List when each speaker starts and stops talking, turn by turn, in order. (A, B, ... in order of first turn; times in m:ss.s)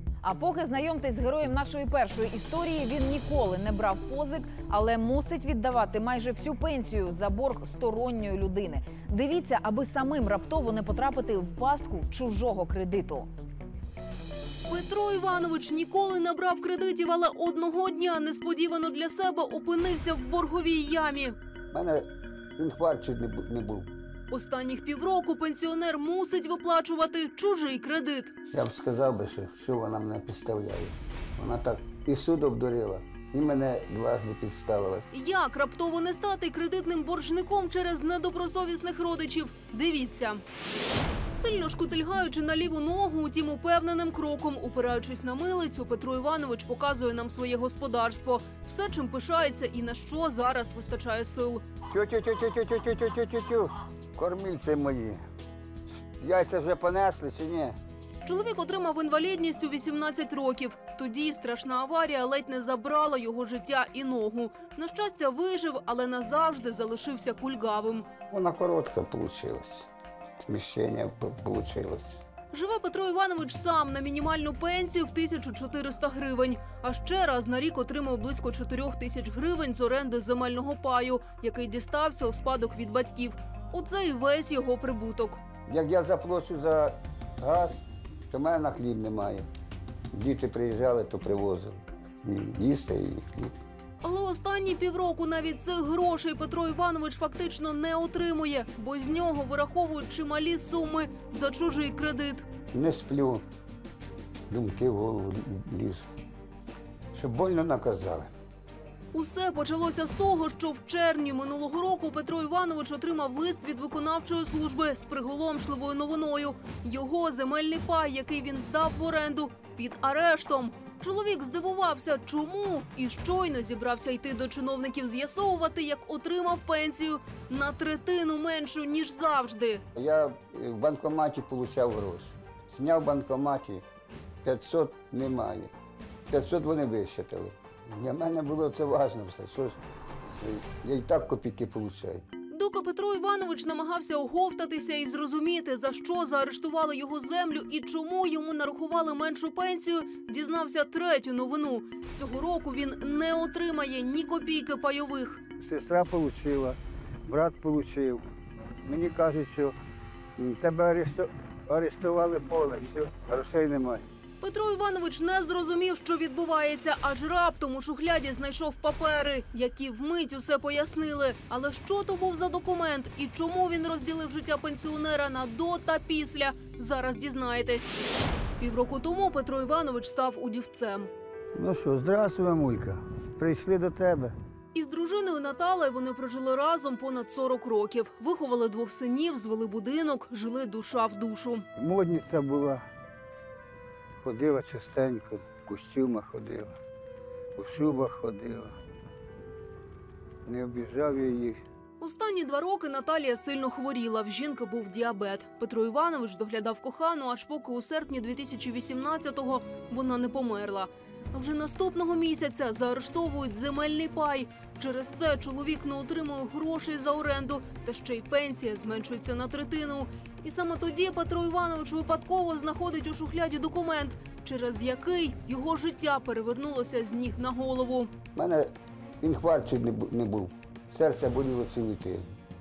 0:00.2-0:13.3 A
0:14.7-0:21.3 B
0:21.7-0:23.9 C
0:24.3-0:28.3 B
0:28.5-0:35.0 C
0:35.1-0:40.4 B
0:41.3-0:51.6 B
0:51.9-0:55.2 C
0:56.2-0:57.8 C
0:58.2-1:08.1 B
1:08.3-1:09.9 C
1:10.4-1:12.2 C
1:12.5-1:25.4 B
1:25.7-1:29.4 C
1:30.1-1:33.5 C
1:34.0-1:42.4 B
1:42.7-1:43.4 C
1:44.5-1:46.1 C
1:47.1-1:48.3 C
1:49.1-2:09.8 B
2:09.9-2:13.8 C
2:14.4-2:15.7 C
2:16.3-2:19.8 C
2:20.4-2:22.2 C
2:22.5-2:35.4 B
2:35.6-2:38.2 C
2:38.8-2:39.7 C
2:40.4-2:44.0 C
2:44.4-2:58.0 B
2:58.6-3:01.1 B
3:01.5-3:04.3 C
3:04.7-3:11.6 B
3:11.8-3:12.8 C
3:14.2-3:16.8 C
3:17.6-3:18.7 C
3:20.4-3:21.6 C
3:22.0-3:48.1 B
3:48.3-3:48.7 C
3:49.2-3:52.4 C